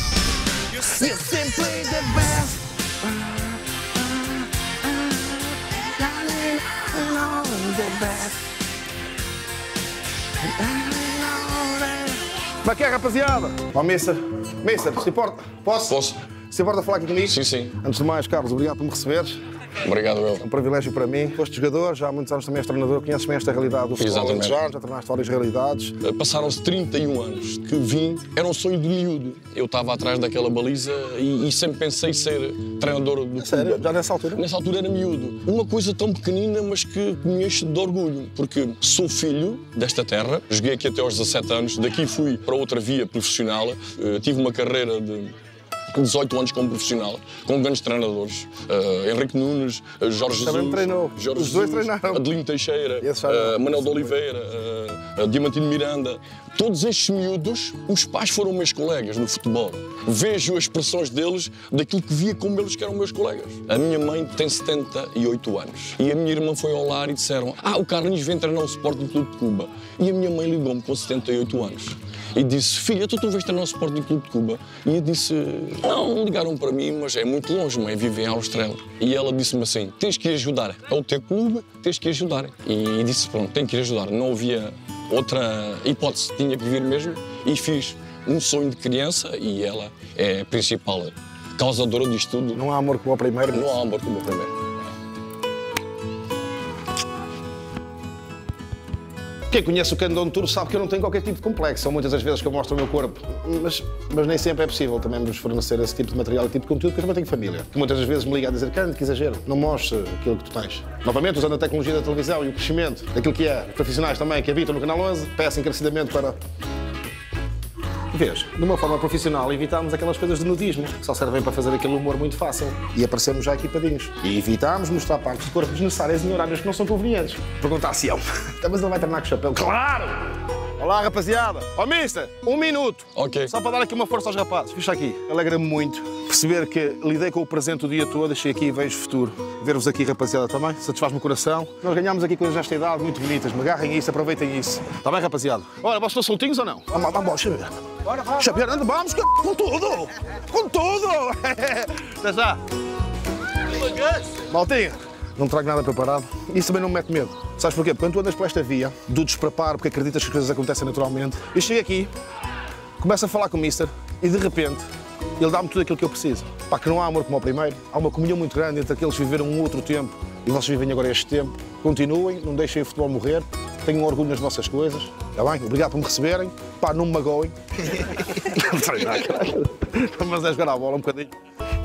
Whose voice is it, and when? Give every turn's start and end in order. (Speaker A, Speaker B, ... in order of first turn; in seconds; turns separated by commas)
Speaker A: 0.8-3.3, Speaker A: 5.9-8.3, Speaker A: 10.6-16.0, Speaker B: 15.9-16.2, Speaker A: 16.5-19.3, Speaker B: 17.2-17.7, Speaker B: 19.8-20.4, Speaker A: 20.4-25.9, Speaker B: 24.0-24.6, Speaker B: 26.0-45.3, Speaker A: 33.4-34.4, Speaker B: 45.9-92.6, Speaker A: 50.4-52.2, Speaker A: 53.0-54.0, Speaker A: 92.5-93.7, Speaker B: 93.5-94.5, Speaker A: 99.5-116.3, Speaker A: 118.1-130.2, Speaker A: 130.8-152.6, Speaker B: 133.2-133.5, Speaker A: 154.5-162.1, Speaker A: 163.0-164.8, Speaker A: 165.4-177.5, Speaker A: 178.2-181.3